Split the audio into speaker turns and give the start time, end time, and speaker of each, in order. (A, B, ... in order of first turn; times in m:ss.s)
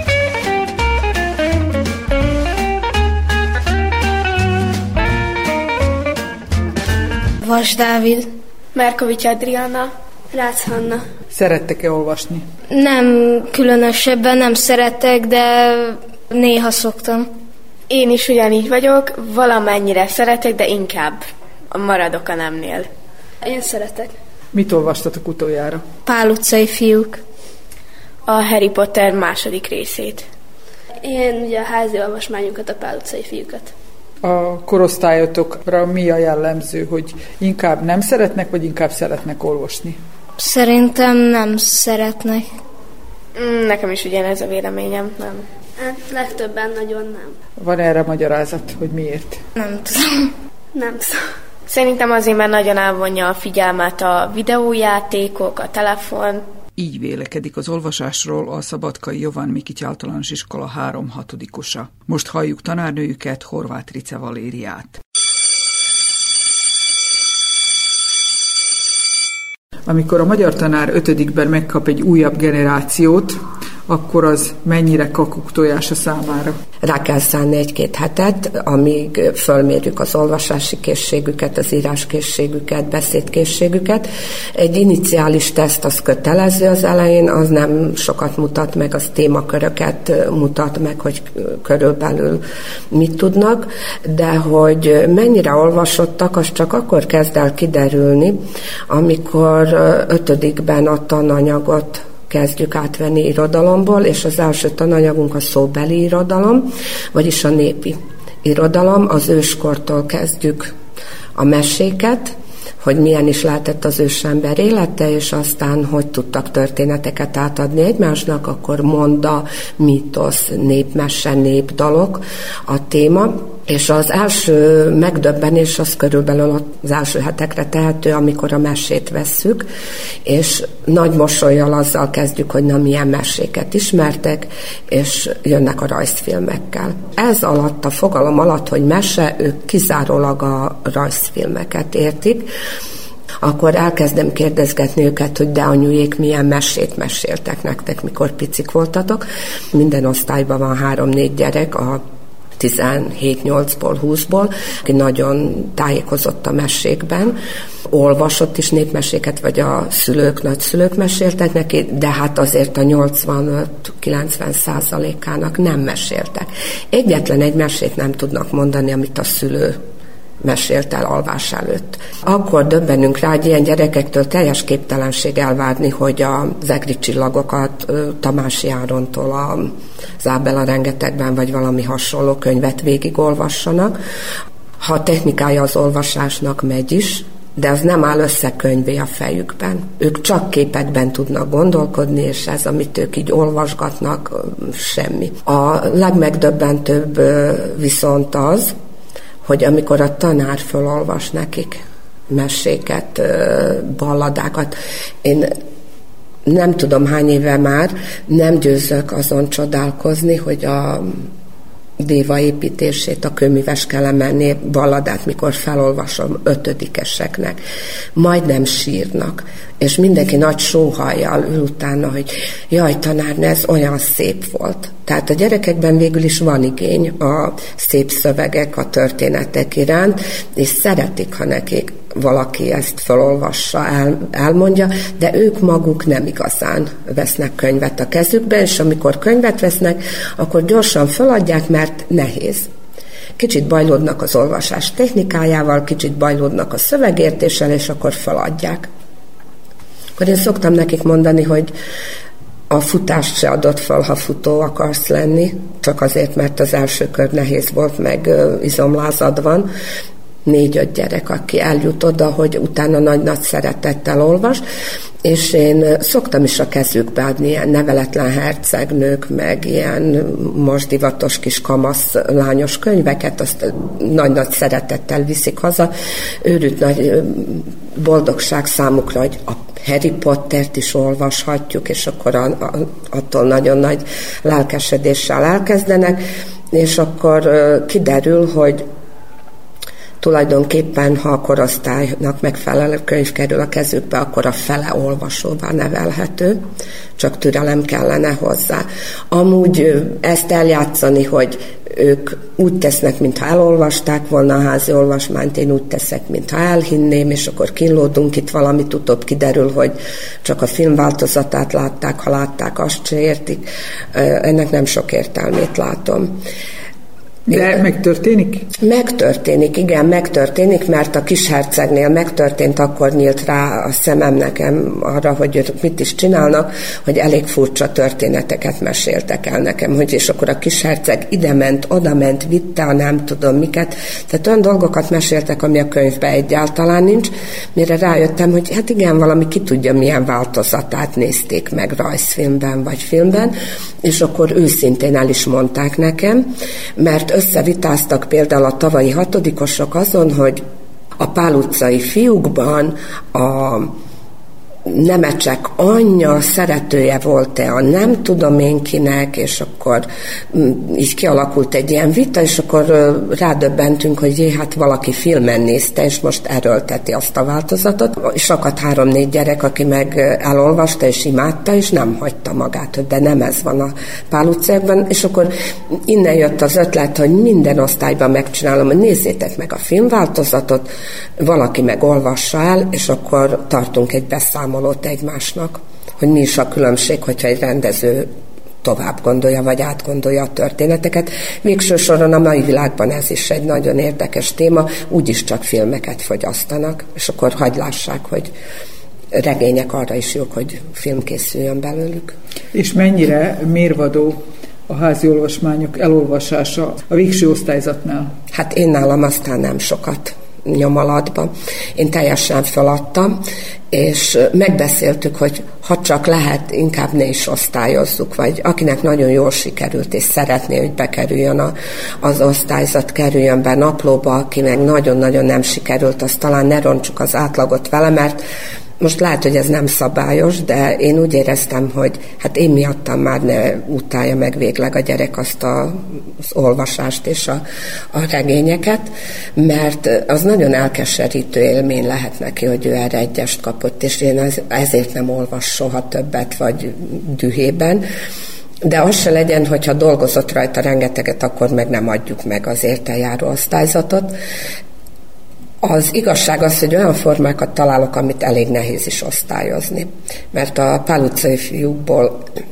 0:07.4-0:08.3 A
0:08.7-0:09.9 B
0:10.3-0:11.0 C
0:11.3-0:12.4 D
0:12.7-0:17.3 A
0:17.9-0:22.9 B
0:23.4-0:24.1 C
0:24.5-0:25.8 D
0:26.0-0:27.2 A
0:28.3-0:30.2 B
0:31.0-0:33.7 C
0:34.2-0:40.0 D
0:40.4-0:42.5 A
0:43.4-0:45.5 B
0:45.8-0:47.3 C
0:47.6-0:49.4 D
0:49.6-0:50.3 A
0:50.7-0:51.2 C
0:51.7-0:56.4 B
0:56.8-1:05.0 D
1:09.8-1:16.6 D
1:16.8-1:50.7 E
1:51.4-2:09.7 E
2:10.2-2:22.5 E
2:23.4-2:32.0 E
2:32.6-2:37.3 E
2:37.9-2:49.8 E
2:50.4-3:03.9 E
3:04.8-3:18.7 E
3:19.4-3:25.5 E
3:26.4-3:31.3 E
3:32.0-3:37.6 E
3:38.2-4:02.7 E
4:03.4-4:08.9 E
4:10.2-4:11.7 E
4:12.7-4:19.7 E
4:20.4-4:24.6 E
4:25.2-4:35.9 E
4:36.4-4:46.2 E
4:46.7-4:48.8 E
4:50.2-4:56.6 E
4:57.2-5:16.4 E
5:17.5-5:18.7 D
5:18.8-5:46.4 E
5:47.0-5:50.6 E
5:51.2-5:54.0 E
5:54.8-6:28.3 E
6:28.8-6:38.5 E
6:39.3-6:42.4 E
6:42.7-6:48.3 D
6:48.5-6:53.4 E
6:53.9-7:08.4 E
7:09.0-7:28.0 E
7:28.8-7:34.4 E
7:35.8-7:42.4 E